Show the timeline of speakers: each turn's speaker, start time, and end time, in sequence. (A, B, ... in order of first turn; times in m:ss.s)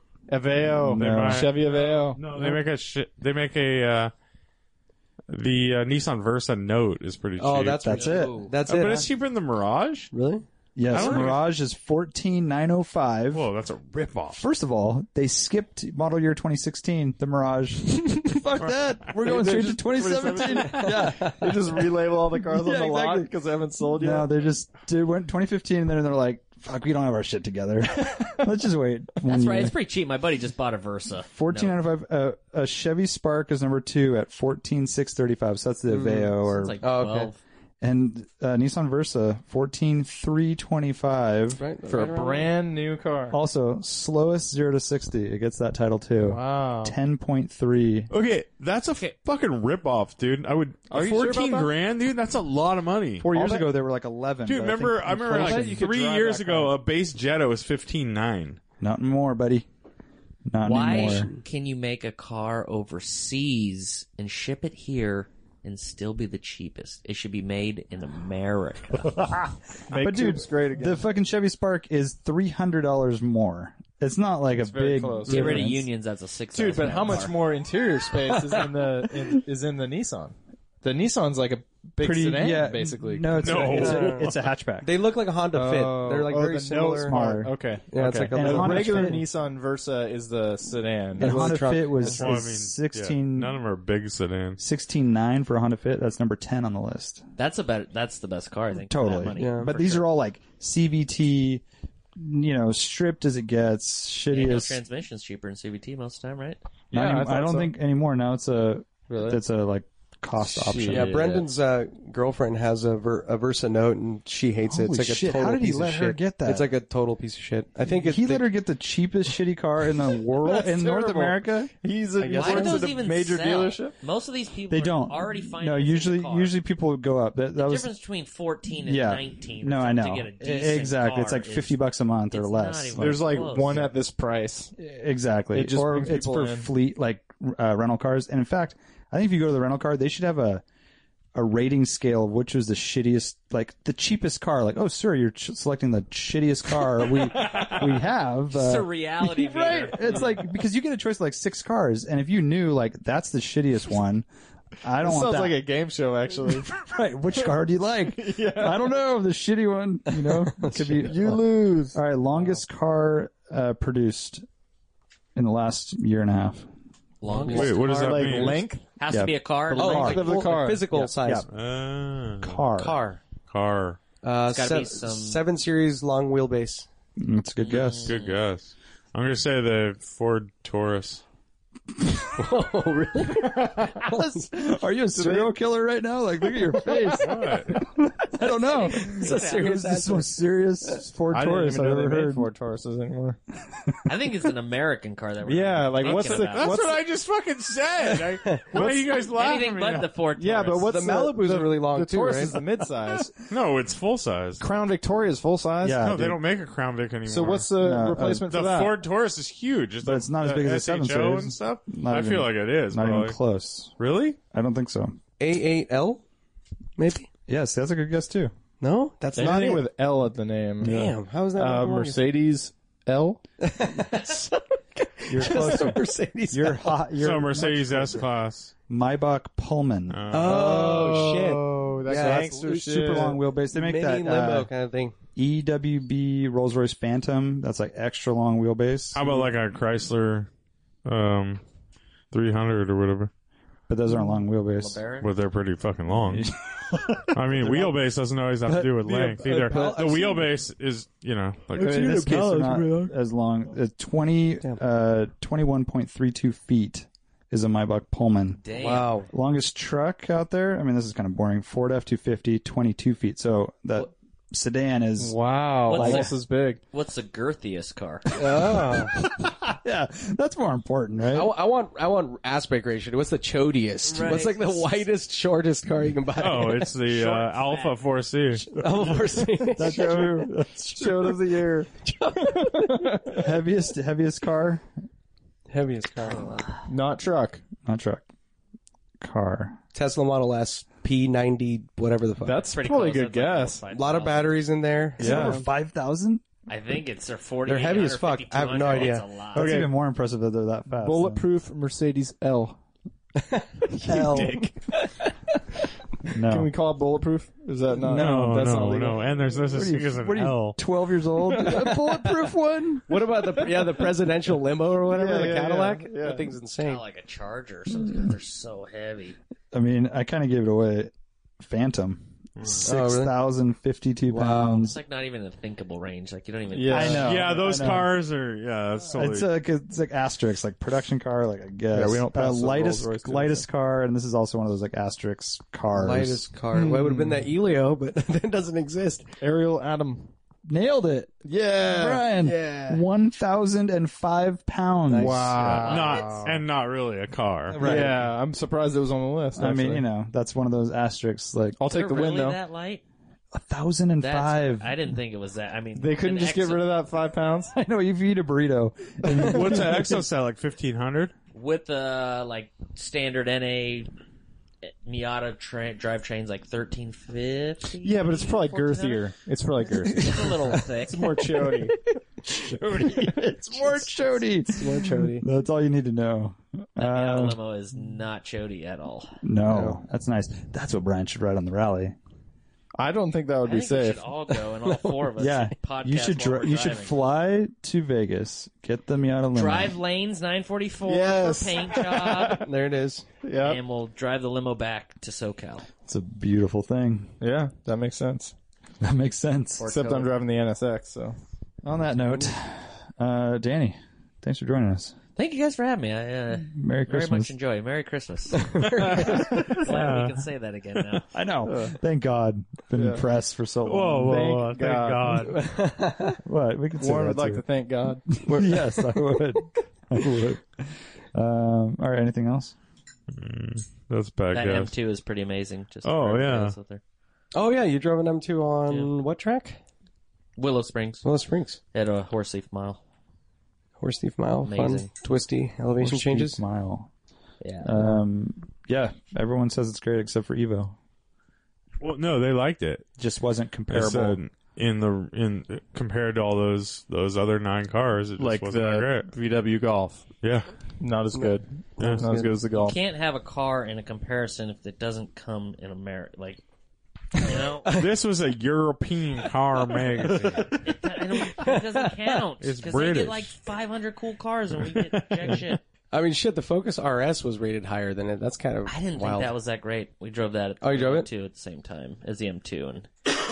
0:00.3-0:02.6 A
0:00.8-0:01.5 B
0:00.8-0:04.1 C
0:05.3-0:07.9 C
0:07.4-0:09.1 D
0:07.8-0:08.4 B
0:07.9-0:08.5 E
0:08.7-0:10.1 C
0:10.1-0:10.4 D
0:10.8-0:13.5 B
0:10.9-0:11.4 C
0:10.9-0:11.2 E
0:13.3-0:14.4 C
0:14.3-0:21.9 B
0:19.2-0:24.3 A
0:22.4-0:23.3 B
0:24.0-0:29.8 B
0:29.2-0:31.8 E
0:31.3-0:36.8 B
0:35.9-0:37.3 D
0:36.5-0:37.4 E
0:37.8-0:41.6 B
0:41.6-0:42.5 D
0:41.9-0:43.4 A
0:43.3-0:48.1 B
0:46.2-0:47.0 A
0:48.1-0:53.3 C
0:50.9-0:51.7 A
0:53.2-0:55.8 B
0:53.3-0:53.6 A
0:54.5-0:58.6 C
0:55.3-0:56.8 A
0:58.8-0:59.7 B
1:00.5-1:01.3 B
1:00.6-1:09.3 E
1:00.9-1:01.4 D
1:09.9-1:11.0 A
1:09.9-1:15.9 B
1:14.5-1:15.7 A
1:15.3-1:17.4 E
1:16.5-1:24.2 A
1:18.4-1:18.6 D
1:22.0-1:24.9 B
1:23.4-1:24.4 C
1:23.7-1:27.2 D
1:25.5-1:32.1 A
1:25.6-1:26.1 B
1:27.0-1:27.5 B
1:27.9-1:29.2 D
1:28.3-1:29.2 B
1:31.2-1:32.4 D
1:31.2-1:33.6 B
1:32.1-1:34.6 C
1:34.6-1:37.2 B
1:37.4-1:40.1 E
1:38.9-1:41.6 B
1:39.4-1:39.7 D
1:42.2-1:44.8 B
1:44.3-1:46.6 E
1:46.9-1:47.7 A
1:46.9-1:51.1 B
1:49.1-1:49.4 A
1:50.6-1:51.1 A
1:50.9-1:58.5 D
1:50.9-1:51.4 E
1:54.7-1:56.7 B
1:58.0-2:01.7 B
2:00.3-2:04.0 A
2:02.2-2:02.9 D
2:02.3-2:06.6 E
2:04.7-2:07.9 B
2:07.6-2:13.9 E
2:08.8-2:13.4 B
2:13.0-2:14.7 A
2:14.8-2:20.6 B
2:15.5-2:16.7 A
2:21.4-2:34.3 B
2:28.5-2:30.4 E
2:34.8-2:35.6 B
2:35.0-2:36.7 A
2:36.4-2:44.4 B
2:38.2-2:38.9 A
2:40.5-2:41.1 D
2:40.8-2:42.0 A
2:45.4-2:46.7 B
2:47.2-2:47.8 E
2:47.2-2:48.6 D
2:47.5-2:48.8 A
2:47.5-2:48.7 C
2:49.0-2:50.4 E
2:49.1-2:50.3 B
2:49.7-2:51.1 A
2:49.7-2:51.5 D
2:51.2-2:51.5 B
2:51.5-2:52.6 C
2:52.4-2:53.0 B
2:52.8-2:53.2 D
2:53.5-2:54.0 C
2:54.2-2:56.9 D
2:54.5-2:55.4 E
2:57.2-2:58.2 B
2:57.6-2:58.4 E
2:58.1-3:01.2 C
3:02.2-3:04.6 D
3:04.1-3:12.5 B
3:05.2-3:05.5 D
3:06.6-3:07.2 D
3:07.2-3:07.7 C
3:08.4-3:10.3 D
3:08.6-3:09.8 E
3:11.3-3:13.4 A
3:14.1-3:16.8 E
3:15.4-3:17.0 A
3:16.0-3:20.1 C
3:18.4-3:18.7 D
3:18.7-3:19.1 A
3:19.3-3:21.0 E
3:20.4-3:23.4 A
3:20.8-3:22.6 D
3:23.5-3:24.6 C
3:24.6-3:26.1 A
3:25.8-3:26.4 B
3:26.0-3:27.7 C
3:27.3-3:29.0 A
3:27.8-3:28.5 B
3:28.5-3:33.4 C
3:30.0-3:33.9 B
3:34.0-3:34.4 C
3:34.5-3:35.2 B
3:35.4-3:36.2 D
3:37.0-3:37.3 D
3:37.5-3:38.5 B
3:38.8-3:39.9 D
3:39.3-3:43.4 A
3:40.8-3:42.2 D
3:43.6-3:47.0 D
3:45.3-3:48.3 B
3:47.2-3:48.7 C
3:48.9-3:50.2 B
3:50.1-3:50.8 C
3:50.3-3:52.7 D
3:50.4-3:53.4 A
3:52.2-3:54.7 B
3:53.7-3:55.1 D
3:55.4-3:59.2 B
3:59.1-4:00.5 C
4:01.0-4:01.6 C
4:02.3-4:03.3 C
4:03.9-4:05.0 B
4:04.8-4:05.3 E
4:05.2-4:06.5 C
4:06.2-4:08.0 B
4:07.3-4:12.3 C
4:08.7-4:09.9 B
4:09.4-4:10.4 D
4:11.8-4:18.6 B
4:12.2-4:13.0 A
4:18.6-4:19.1 E
4:18.7-4:19.3 D
4:19.2-4:26.3 B
4:25.2-4:26.8 A
4:25.9-4:28.3 E
4:28.3-4:29.3 D
4:28.5-4:31.5 B
4:31.3-4:37.0 D
4:34.0-4:35.0 E
4:36.4-4:38.8 C
4:37.0-4:38.0 E
4:38.6-4:40.5 D
4:39.7-4:41.4 B
4:39.9-4:43.4 A
4:42.0-4:43.2 D
4:43.3-4:44.9 B
4:45.7-4:46.8 D
4:46.9-4:47.6 A
4:47.8-4:48.2 B
4:49.2-4:49.8 B
4:49.9-4:52.7 D
4:52.4-4:53.8 A
4:52.7-4:54.7 E
4:53.9-4:55.6 D
4:55.2-4:55.7 A
4:55.2-4:56.4 B
4:56.7-4:59.7 E
4:57.6-4:59.5 D
4:59.5-4:59.9 A
4:59.5-5:01.5 B
5:00.9-5:02.8 A
5:03.4-5:05.3 D
5:04.0-5:04.6 B
5:04.1-5:04.7 A
5:06.3-5:06.7 B
5:06.5-5:09.7 A
5:08.1-5:10.8 C
5:09.7-5:13.1 B
5:11.5-5:12.0 A
5:13.1-5:17.0 D
5:13.8-5:14.0 A
5:15.1-5:16.5 A
5:16.8-5:19.4 E
5:19.7-5:25.0 B
5:22.8-5:23.3 D
5:24.3-5:24.9 D
5:24.8-5:27.4 E
5:26.7-5:27.4 A
5:26.9-5:28.1 B
5:27.2-5:29.5 C
5:29.1-5:36.4 B
5:31.9-5:33.6 A
5:35.9-5:39.3 D
5:36.7-5:37.5 A
5:39.4-5:40.3 A
5:40.7-5:41.4 B
5:41.4-5:42.3 A
5:41.9-5:45.9 B
5:42.3-5:43.0 D
5:45.1-5:46.4 D
5:45.2-5:46.5 A
5:45.8-5:47.8 C
5:45.8-5:46.5 E
5:47.7-5:48.3 B
5:47.8-5:50.0 A
5:49.6-5:51.8 B
5:51.8-5:52.6 A
5:51.9-5:53.0 E
5:53.5-5:55.0 B
5:54.2-5:56.9 E
5:56.0-5:57.8 A
5:57.8-6:00.2 B
5:59.3-6:01.3 C
6:01.5-6:04.1 E
6:04.8-6:09.3 E
6:08.0-6:12.0 A
6:09.8-6:11.3 E
6:11.5-6:12.2 D
6:12.5-6:17.6 B
6:14.7-6:15.5 D
6:17.0-6:19.4 E
6:19.4-6:22.2 B
6:19.7-6:20.0 D
6:23.0-6:24.3 A
6:23.6-6:27.2 E
6:24.8-6:25.3 D
6:25.4-6:30.0 B
6:29.5-6:32.7 E
6:31.1-6:32.7 A
6:32.6-6:33.3 D
6:33.4-6:33.8 A
6:33.6-6:35.9 E
6:36.1-6:37.3 B
6:37.4-6:38.5 A
6:39.0-6:39.9 B
6:39.8-6:40.3 E
6:39.9-6:41.4 A
6:41.8-6:45.2 B
6:45.4-6:51.2 E
6:46.6-6:47.5 B
6:48.5-6:49.8 D
6:48.9-6:50.4 C
6:51.3-6:54.5 B
6:51.7-6:52.0 A
6:53.0-6:53.2 A
6:53.8-6:55.7 C
6:54.2-6:55.6 A
6:55.5-6:56.4 D
6:56.4-6:57.6 B
6:57.0-6:58.4 A
6:58.3-7:02.8 B
6:58.4-6:59.4 D
7:03.3-7:04.9 C
7:04.5-7:07.0 E
7:06.0-7:06.8 C
7:07.5-7:09.8 D
7:10.6-7:11.3 E
7:11.2-7:11.8 D
7:11.9-7:13.0 E
7:14.0-7:16.6 D
7:14.6-7:15.1 E
7:16.0-7:17.1 B
7:17.6-7:18.0 E
7:17.8-7:21.0 B
7:22.0-7:23.0 C
7:23.2-7:24.4 B
7:23.9-7:29.3 C
7:28.4-7:30.2 A
7:30.4-7:30.7 C
7:31.0-7:33.0 A
7:31.3-7:32.6 D
7:32.7-7:36.6 E
7:37.4-7:37.9 E
7:37.8-7:38.1 D
7:37.9-7:40.8 C
7:40.4-7:40.7 D
7:40.7-7:45.8 E
7:41.4-7:42.3 D
7:42.6-7:43.5 C
7:44.9-7:45.7 C
7:46.1-7:49.5 D
7:48.9-7:53.1 E
7:50.8-7:51.3 D